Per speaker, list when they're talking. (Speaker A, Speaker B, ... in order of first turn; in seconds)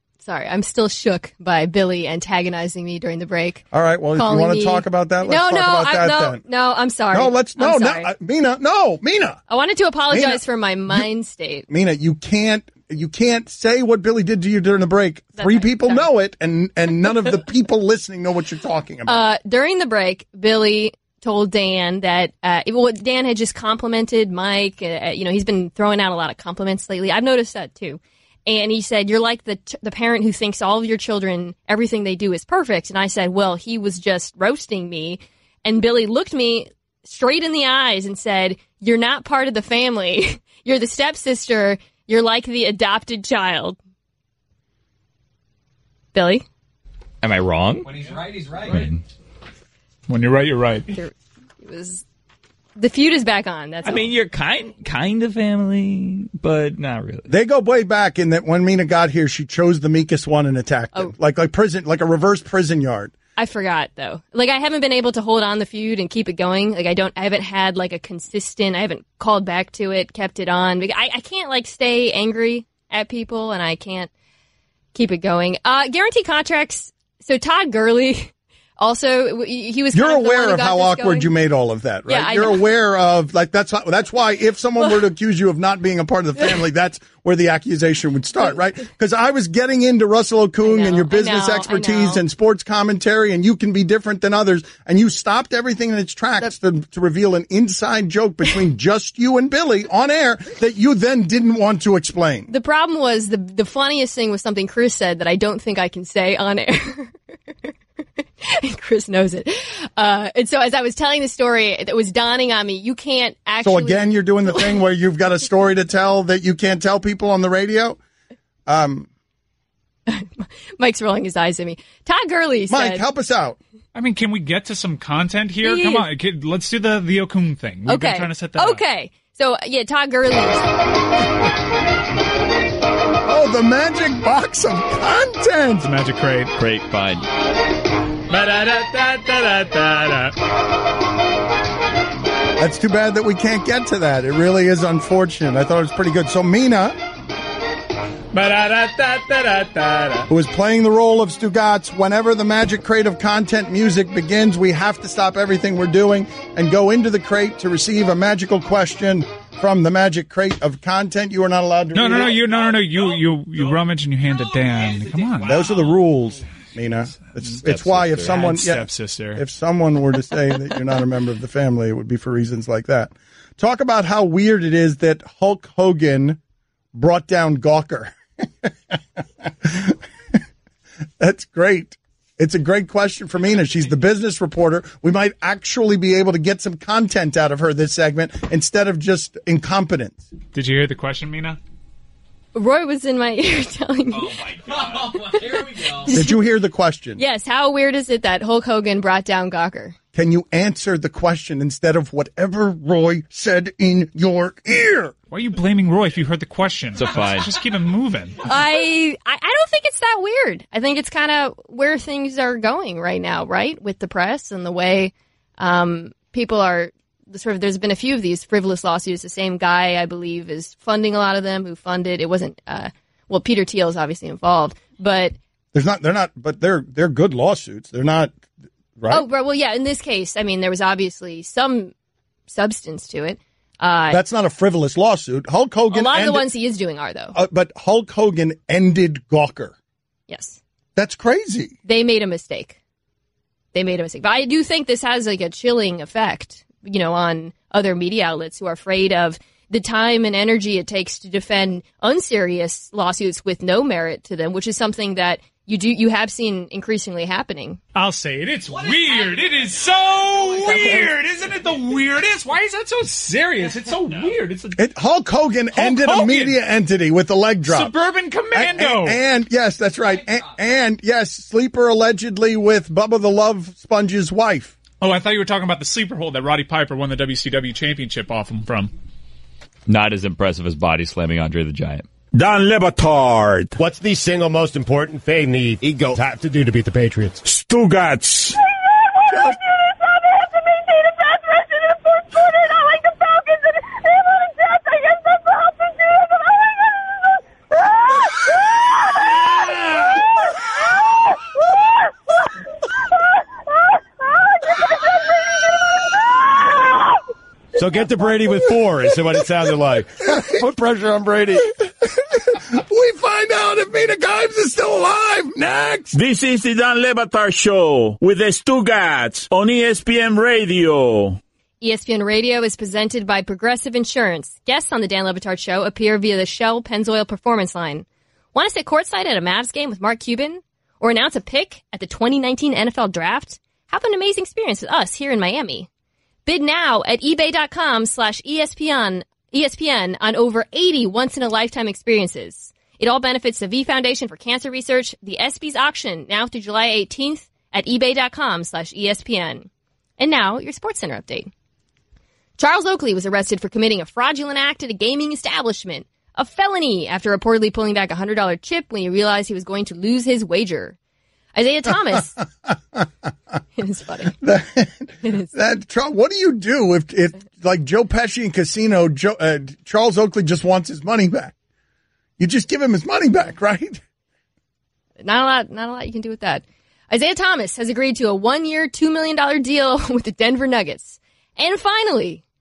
Speaker A: 0.2-3.6, 4.2-8.1, 9.5-11.7, 15.4-16.1, 19.1-43.8, 46.1-46.4, 50.9-52.0, 52.8-54.1, 63.4-74.1, 75.0-81.3, 82.1-82.6, 90.7-92.2, 102.5-107.2, 108.4-114.8, 120.1-123.0, 125.6-126.1, 127.9-130.7, 192.5-194.4, 195.1-196.4, 197.2-200.0, 208.4-225.4, 229.1-231.9, 232.5-234.2, 235.9-237.3, 240.3-240.6, 241.9-242.8, 243.7-257.8, 321.8-335.9, 336.5-351.5, 352.6-361.0, 361.6-362.4, 363.8-364.4, 375.2-382.4
Speaker B: 3.7-6.4, 7.1-9.4, 10.1-11.1, 11.7-19.2, 57.3-63.1, 79.9-102.5, 113.6-118.0, 118.7-119.1, 122.7-123.6, 133.2-135.9, 142.6-147.0, 150.3-162.4, 165.4-176.4, 176.9-180.4, 181.2-190.3, 196.1-197.2, 200.2-205.1, 225.7-228.4, 229.0-229.3, 234.1-236.5, 237.3-239.8, 241.0-241.8, 264.8-267.9, 268.5-274.7, 289.3-289.6, 307.8-316.2, 362.7-363.1, 364.3-371.5, 372.4-374.0
Speaker C: 47.2-48.0, 53.8-57.3, 136.6-137.2, 207.0-207.5, 279.9-282.1
Speaker D: 50.1-50.9, 123.9-128.8, 135.8-136.6, 138.3-140.3, 148.3-150.3, 161.9-165.8, 167.4-169.4, 190.5-191.6, 205.3-208.5, 257.9-264.8, 265.7-266.6, 267.7-269.2, 275.0-278.9
Speaker E: 282.3-283.8, 287.4-288.6, 316.1-321.4
Speaker F: 283.8-287.4, 307.8-309.9